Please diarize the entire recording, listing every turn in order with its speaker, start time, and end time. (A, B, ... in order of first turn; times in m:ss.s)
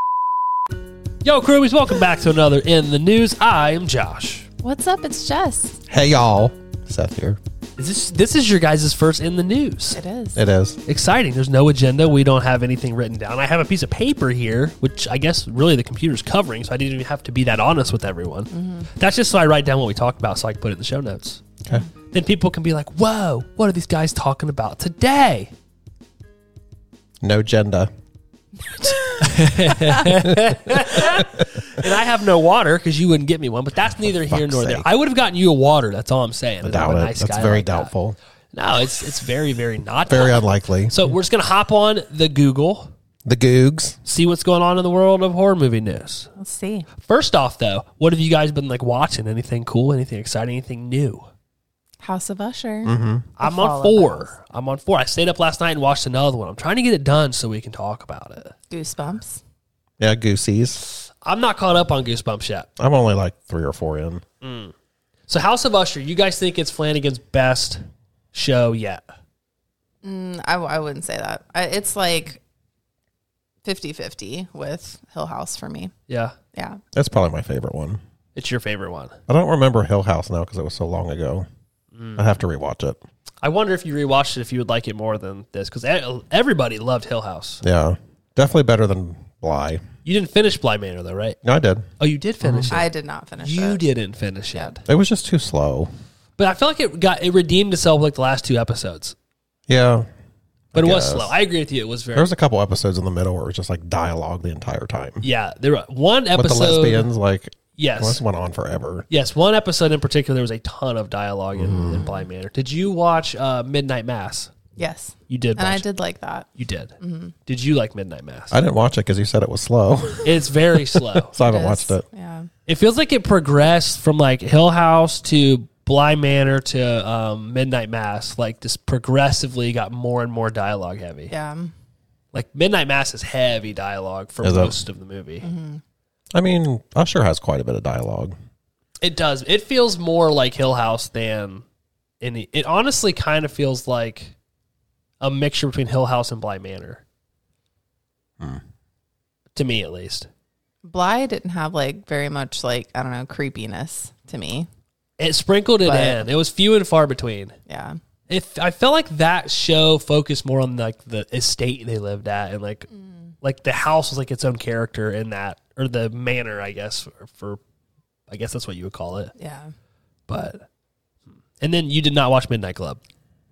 0:01.2-0:04.5 A
0:04.6-0:05.8 B
0:05.9-0:07.4 C
0:07.8-0:10.0 A
0:09.9-0:10.4 B
0:10.3-0:10.8 C
0:10.9-0:21.4 A
0:18.5-0:18.9 B
0:22.1-0:25.5 A
0:27.2-0:27.9 C
0:28.6-0:29.3 B
0:29.2-0:37.9 A
0:29.2-0:31.4 C
0:34.0-0:34.9 C
0:36.6-0:38.2 C
0:38.5-0:42.9 A
0:40.1-0:40.9 C
0:43.2-0:44.0 C
0:44.0-0:46.3 A
0:46.4-0:46.9 B
0:47.0-0:51.3 A
0:52.0-0:54.3 B
0:52.8-0:53.3 C
0:53.4-0:58.5 A
0:58.7-0:59.4 B
1:00.0-1:00.8 C
1:00.9-1:02.7 A
1:02.8-1:04.2 C
1:04.4-1:04.7 A
1:05.3-1:07.8 A
1:08.3-1:09.1 A
1:10.0-1:12.4 B
1:13.6-1:15.9 B
1:16.1-1:16.3 A
1:16.5-1:16.8 B
1:16.9-1:18.0 C
1:18.4-1:19.2 A
1:19.3-1:21.5 C
1:21.9-1:22.3 A
1:22.2-1:23.0 C
1:23.4-1:27.6 A
1:27.6-1:29.8 C
1:30.0-1:31.4 A
1:31.4-1:31.8 C
1:32.0-1:32.9 A
1:32.4-1:32.7 C
1:32.7-1:33.8 B
1:33.4-1:34.8 A
1:34.8-1:35.9 C
1:36.4-1:39.1 A
1:39.7-1:40.1 C
1:40.7-1:41.3 C
1:40.7-1:42.3 A
1:42.1-1:45.2 C
1:45.2-1:47.1 A
1:46.3-1:49.0 C
1:47.8-1:48.2 A
1:49.1-1:54.5 A
1:51.6-1:52.1 C
1:54.8-1:56.5 B
1:55.3-1:55.8 A
1:56.6-1:56.9 A
1:57.0-1:57.3 B
1:57.4-1:58.5 A
1:58.5-2:02.0 C
2:00.2-2:01.3 A
2:01.4-2:02.5 B
2:02.7-2:11.3 A
2:11.3-2:11.7 B
2:12.3-2:15.5 A
2:14.4-2:14.7 C
2:15.4-2:15.8 B
2:16.3-2:18.3 C
2:19.0-2:21.6 A
2:22.2-2:24.3 A
2:25.2-2:27.0 A
2:29.5-2:30.3 A
2:30.8-2:34.7 B
2:35.2-2:37.6 A
2:35.8-2:36.3 B
2:37.7-2:38.0 B
2:38.3-2:42.9 A
2:42.9-2:43.3 B
2:43.4-2:47.6 A
2:48.3-2:49.3 A
2:49.4-2:49.7 B
2:50.3-2:50.6 A
2:51.6-2:53.0 A